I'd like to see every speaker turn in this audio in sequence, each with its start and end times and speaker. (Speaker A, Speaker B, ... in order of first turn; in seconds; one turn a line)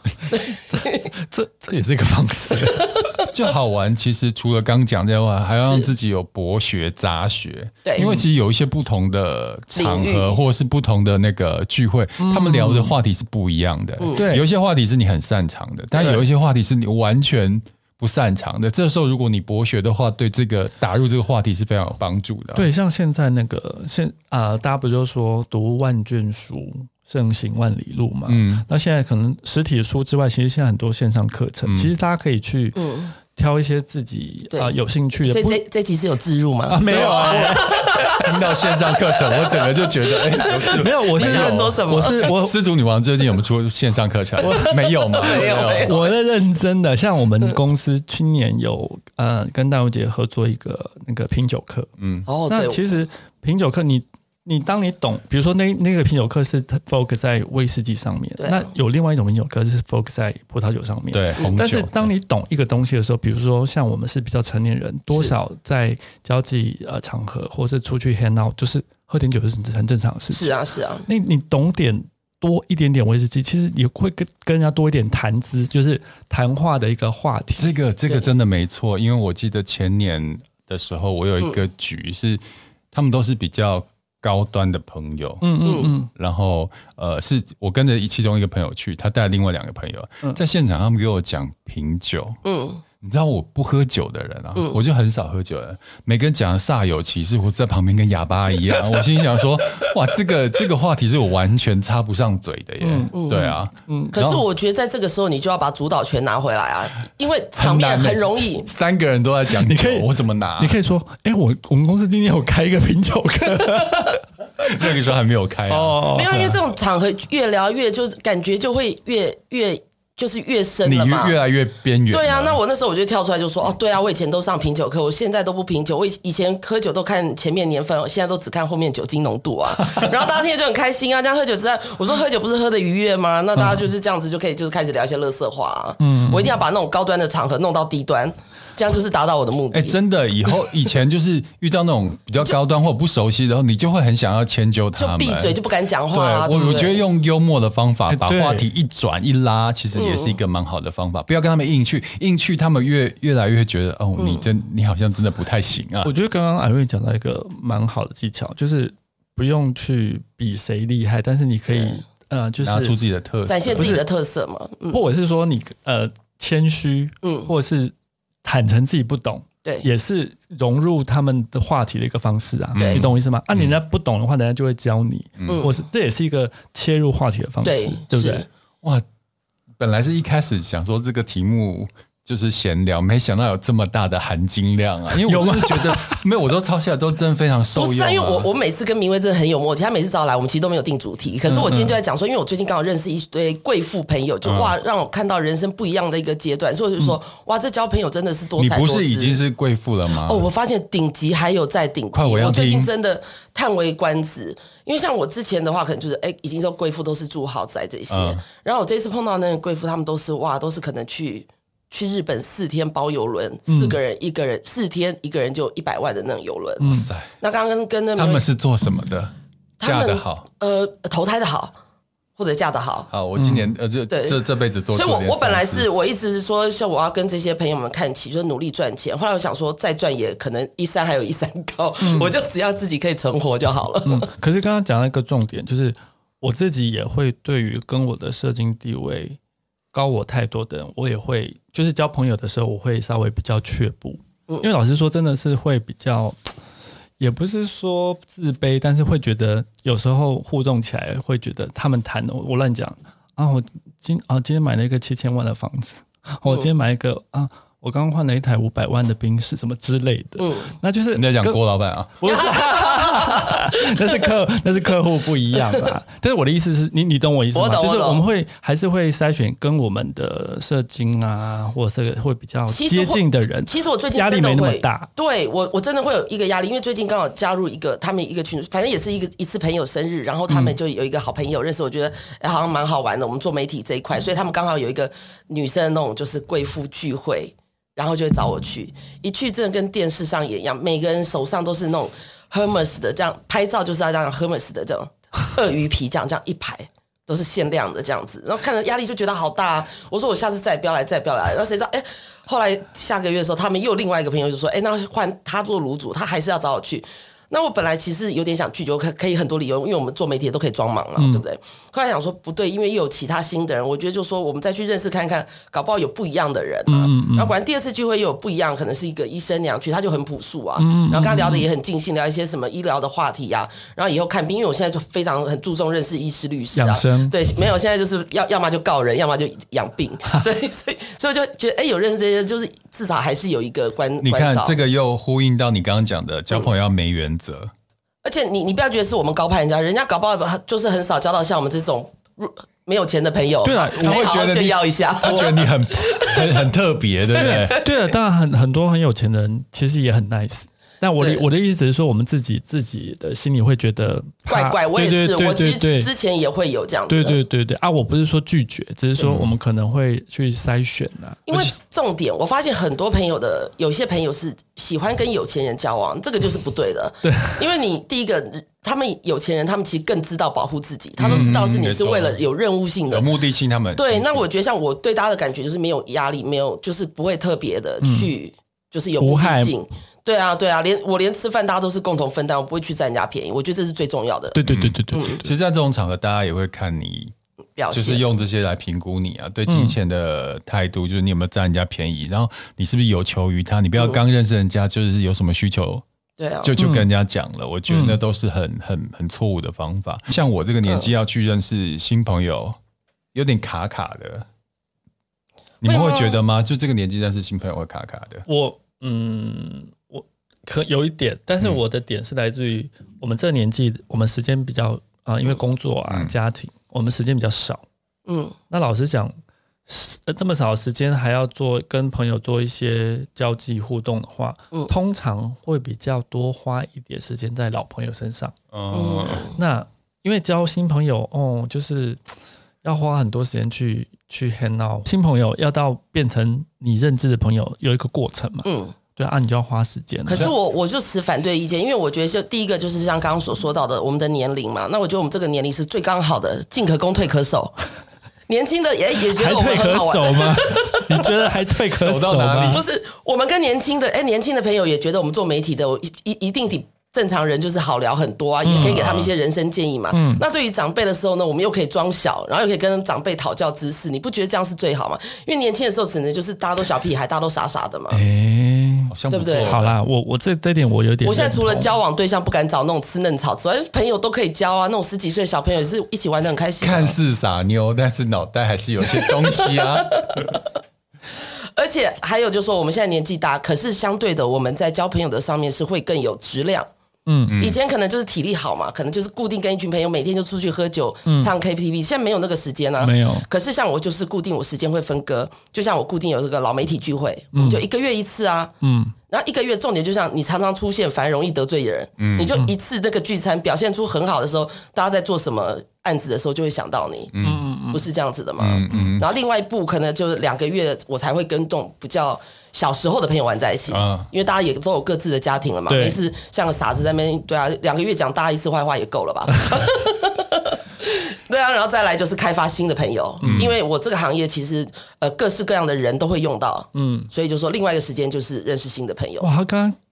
Speaker A: 0.3-1.1
Speaker B: 0.7-3.2
Speaker C: 3.3-22.7
Speaker A: 5.6-5.9
Speaker B: 8.0-8.2
Speaker A: 9.7-10.4
Speaker B: 12.2-12.9
Speaker B: 14.2-14.4
Speaker B: 22.5-35.6
Speaker C: 28.3-28.6
Speaker C: 31.6-31.9
Speaker A: 32.7-33.1
Speaker A: 34.5-42.3
Speaker B: 36.7-38.2
Speaker C: 36.9-37.6
Speaker C: 38.2-45.9
Speaker B: 40.5-42.5
Speaker B: 44.4-51.9
Speaker A: 45.2-46.1
Speaker C: 52.0-52.3
Speaker A: 52.2-52.9
Speaker B: 52.5-77.7
Speaker A: 58.4-58.7
Speaker C: 61.1-62.1
Speaker A: 70.3-71.1
Speaker C: 77.6-92.4
Speaker B: 85.4-86.1
Speaker A: 85.6-85.9
Speaker A: 92.4-92.8
Speaker C: 93.0-104.4
Speaker B: 102.8-103.1
Speaker A: 103.1-103.6
Speaker B: 103.9-104.2
Speaker A: 104.1-108.7
Speaker C: 107.5-110.7
Speaker B: 109.5-114.2
Speaker C: 114.6-116.0
Speaker B: 115.7-116.6
Speaker A: 116.1-121.3
Speaker C: 120.8-122.6
Speaker A: 122.1-139.9
Speaker B: 136.0-136.6
Speaker C: 139.7-145.6
Speaker A: 145.0-147.0
Speaker C: 146.1-156.1
Speaker B: 148.1-148.7
Speaker A: 149.9-150.4
Speaker A: 154.2-154.4
Speaker B: 156.0-162.9
Speaker A: 161.7-162.0
Speaker C: 162.6-164.0
Speaker A: 163.4-165.0
Speaker B: 163.8-164.0
Speaker B: 164.9-167.9
Speaker A: 167.2-167.5
Speaker B: 168.4-178.4
Speaker C: 172.7-173.8
Speaker A: 172.8-173.1
Speaker C: 175.4-175.6
Speaker A: 175.5-175.8
Speaker A: 177.6-178.4
Speaker C: 179.8-188.5
Speaker B: 185.2-186.2
Speaker A: 187.8-199.4
Speaker C: 191.5-191.9
Speaker B: 191.5-191.8
Speaker C: 194.4-194.7
Speaker C: 198.6-200.4
Speaker A: 200.2-218.4
Speaker C: 202.1-202.9
Speaker C: 208.1-208.4
Speaker B: 213.7-214.0
Speaker B: 216.8-217.1
Speaker C: 216.8-217.3
Speaker C: 218.2-220.5
Speaker A: 219.8-221.7
Speaker A: 222.4-223.1
Speaker C: 223.1-225.8
Speaker B: 223.4-223.6
Speaker A: 224.1-224.4
Speaker A: 224.9-234.3
Speaker B: 232.0-232.3
Speaker B: 234.1-239.4
Speaker B: 239.9-246.6
Speaker B: 247.2-261.6
Speaker A: 260.4-260.7
Speaker C: 261.1-262.2
Speaker B: 262.2-275.1
Speaker A: 262.2-264.1
Speaker A: 265.5-265.9
Speaker A: 267.5-268.2
Speaker A: 272.7-334.8
Speaker B: 311.2-311.4
Speaker B: 316.9-317.5
Speaker B: 320.8-321.7
Speaker B: 326.7-327.4
Speaker C: 334.2-337.7
Speaker A: 338.2-346.7
Speaker B: 343.6-344.3
Speaker C: 344.0-347.8
Speaker A: 347.3-348.1
Speaker B: 347.3-356.1
Speaker A: 351.2-351.4
Speaker A: 354.5-357.4
Speaker B: 357.1-361.4
Speaker C: 359.2-359.5
Speaker A: 361.5-373.2
Speaker B: 367.2-367.7
Speaker C: 371.2-372.4
Speaker C: 373.1-374.4
Speaker A: 373.9-385.4
Speaker B: 378.0-378.3
Speaker B: 379.2-379.7
Speaker B: 384.5-385.5
Speaker C: 384.7-387.3
Speaker A: 387.8-388.2
Speaker C: 387.9-396.0
Speaker B: 389.7-389.9
Speaker A: 396.4-396.7
Speaker C: 396.6-402.8
Speaker B: 396.8-397.1
Speaker B: 397.9-398.2
Speaker C: 403.3-404.4
Speaker C: 405.8-408.5
Speaker A: 405.8-406.4
Speaker B: 408.5-417.8
Speaker A: 418.2-418.6
Speaker B: 418.7-419.3
Speaker B: 419.9-428.6
Speaker C: 428.7-429.5
Speaker A: 428.9-429.6
Speaker B: 429.5-440.5
Speaker A: 438.6-438.9
Speaker A: 440.2-447.8
Speaker A: 448.5-451.3
Speaker B: 449.3-452.8
Speaker C: 452.0-452.8
Speaker A: 452.7-468.2
Speaker B: 458.6-459.0
Speaker C: 458.7-459.3
Speaker B: 460.1-460.4
Speaker B: 468.1-469.1
Speaker C: 469.1-469.9
Speaker A: 469.3-469.8
Speaker B: 469.6-471.9
Speaker A: 471.2-477.1
Speaker C: 476.8-480.4
Speaker A: 479.1-480.6
Speaker A: 481.4-486.9
Speaker B: 487.3-487.5
Speaker C: 487.5-487.8
Speaker A: 487.6-498.7
Speaker B: 491.2-491.5
Speaker B: 493.0-493.4
Speaker B: 497.5-497.8
Speaker B: 498.8-499.1
Speaker A: 499.3-507.3
Speaker C: 502.2-502.6
Speaker C: 507.3-507.7
Speaker B: 507.4-508.0
Speaker A: 507.9-529.5
Speaker C: 508.6-509.2
Speaker C: 513.9-514.3
Speaker B: 515.9-516.2
Speaker C: 523.4-523.7
Speaker B: 526.9-527.3
Speaker B: 529.4-530.0